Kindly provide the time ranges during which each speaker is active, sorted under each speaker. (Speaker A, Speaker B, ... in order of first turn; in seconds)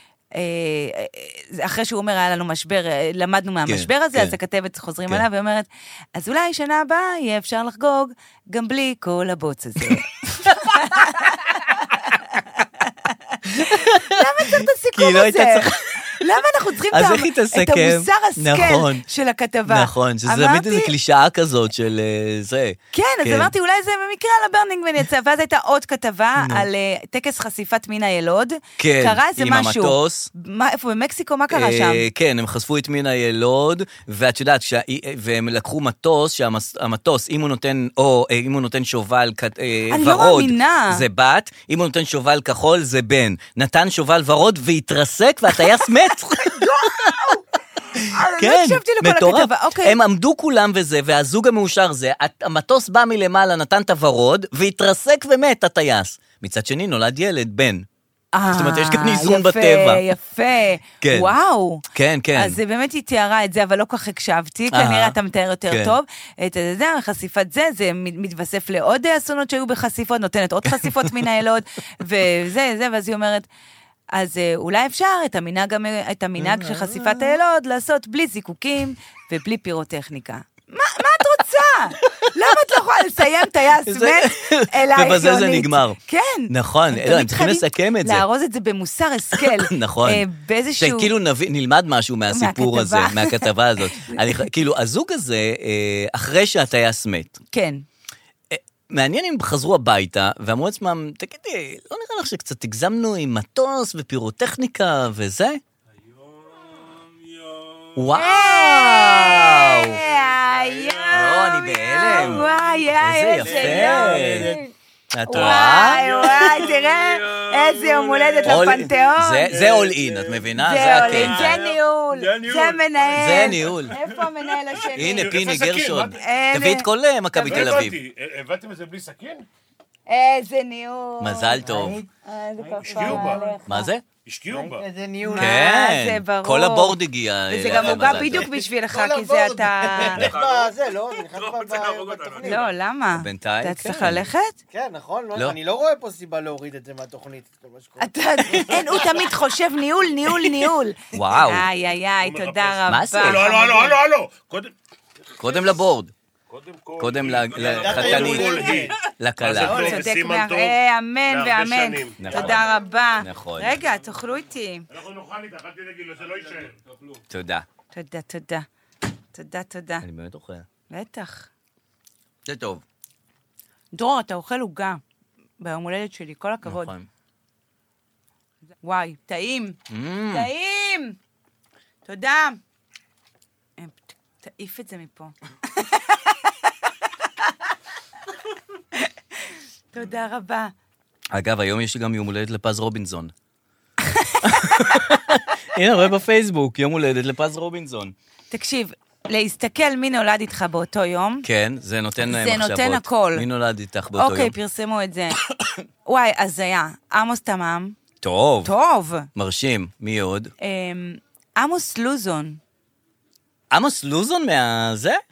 Speaker A: 0.3-20.9, 22.9-32.1, 39.9-41.0, 46.4-47.4, 48.1-50.0, 58.3-61.8, 62.4-73.5, 74.1-91.1, 92.3-94.4, 97.5-97.8, 108.1-114.7, 115.3-119.6, 120.5-125.5, 126.1-127.9, 130.1-133.9, 135.2-140.2, 142.4-144.6, 148.0-154.0, 159.6-164.9, 167.9-168.7, 169.3-170.1, 170.9-171.5, 173.9-175.0, 175.6-176.9, 178.8-179.8, 180.3-181.2, 182.1-182.6, 183.8-186.5, 187.2-187.5, 188.9-190.7, 194.0-195.2, 198.5-201.5, 202.2-203.5, 204.2-205.4, 206.1-208.0, 208.6-209.3, 210.6-212.6
Speaker B: 3.7-4.3, 10.5-10.8, 13.4-16.1, 16.9-19.0, 19.6-23.5, 26.4-26.7, 28.8-30.3, 31.5-47.4, 47.9-57.9, 58.5-60.0, 61.0-61.3, 61.9-62.6, 64.7-65.2, 65.7-66.0, 70.6-71.2, 76.4-77.4, 83.8-88.2, 89.4-90.2, 90.8-97.4, 98.5-105.6, 108.0-110.0, 111.1-112.5, 113.0-114.6, 115.1-116.5, 118.4-121.6, 123.1-123.9, 124.9-128.0, 131.2-132.0, 133.7-134.0, 135.3-138.5, 143.1-144.3, 151.1-151.7, 152.9-153.5, 155.4-156.1, 157.0-159.9, 162.2-163.8, 167.3-167.7, 170.0-170.7, 172.4-172.8, 176.6-177.1, 179.9-180.5, 191.3-193.3, 194.4-198.1, 201.4-204.6, 208.2-208.7, 209.3-210.5, 213.7-215.2
Speaker C: 106.2-107.9, 110.4-112.8, 113.4-114.6, 115.3-118.9, 119.5-126.2, 127.4-129.5, 132.7-133.5, 134.1-134.8, 140.0-142.7, 152.2-154.7, 155.3-155.7, 156.5-162.7, 164.9-167.2
Speaker D: 131.6-132.1, 132.6-133.5, 134.5-135.6, 138.4-142.6, 144.7-149.3, 157.6-159.0, 159.6-160.1